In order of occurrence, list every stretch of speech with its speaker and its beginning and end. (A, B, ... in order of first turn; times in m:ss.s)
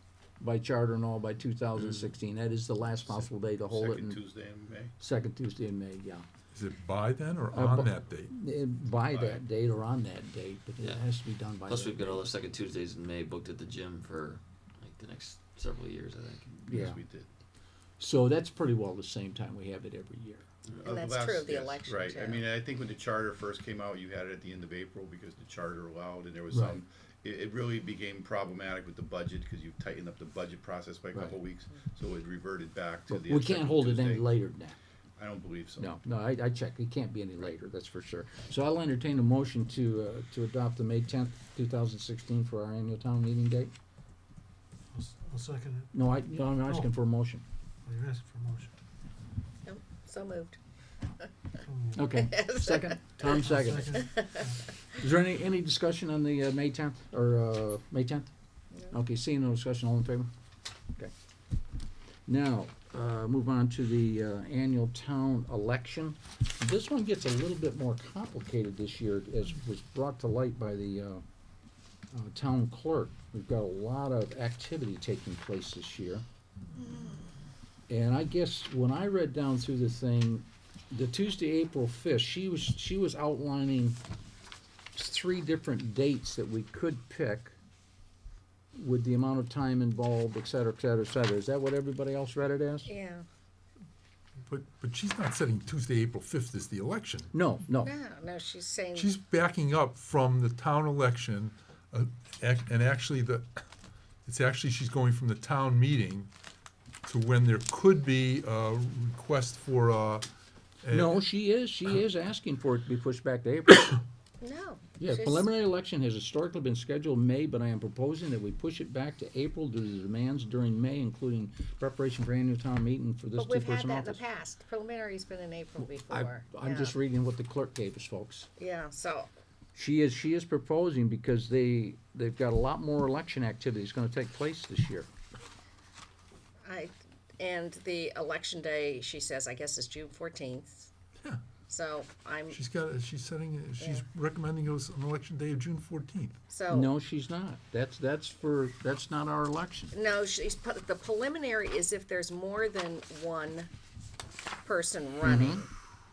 0:00.4-0:04.2 A
0:01.8-0:02.0 B
0:03.0-0:04.9 C
0:05.0-0:06.3 A
0:06.5-0:08.3 D
0:07.5-0:12.3 A
0:09.1-0:09.4 C
0:11.7-0:16.5 B
0:16.7-0:17.0 A
0:16.7-0:17.3 C
0:18.0-0:20.4 A
0:20.8-0:34.3 C
0:20.9-0:22.4 E
0:26.5-0:26.8 A
0:33.1-0:34.8 A
0:35.2-0:35.9 C
0:35.8-0:43.7 A
0:44.9-0:45.9 F
0:45.9-0:47.4 A
0:47.8-0:48.7 F
0:49.6-0:50.6 E
0:51.7-0:52.0 F
0:52.0-0:54.1 A
0:52.1-0:53.3 E
0:53.2-0:54.6 F
0:53.9-0:54.5 E
0:55.0-0:58.3 A
0:58.9-1:00.3 A
1:02.3-1:11.2 A
1:12.1-1:16.2 A
1:16.8-1:17.1 E
1:17.9-1:24.0 A
1:25.0-1:27.6 A
1:28.8-1:32.9 A
1:32.9-1:33.2 E
1:34.5-1:37.3 D
1:37.3-1:37.9 A
1:37.8-1:39.1 E
1:38.9-1:43.5 D
1:44.2-1:46.3 D
1:47.0-1:50.3 D
1:50.8-1:51.2 D
1:50.9-1:54.0 A
1:54.4-1:55.4 E
1:55.0-2:04.2 A
2:03.4-2:07.0 E
2:05.8-2:08.5 A
2:08.6-2:09.3 E
2:09.8-2:15.1 A
2:16.6-2:20.9 E
2:21.7-2:22.6 E
2:22.5-2:26.4 D
2:23.8-2:24.0 E
2:26.5-2:26.9 E
2:26.7-2:29.9 A
2:29.9-2:33.7 E
2:34.6-2:35.7 E
2:35.2-2:35.6 A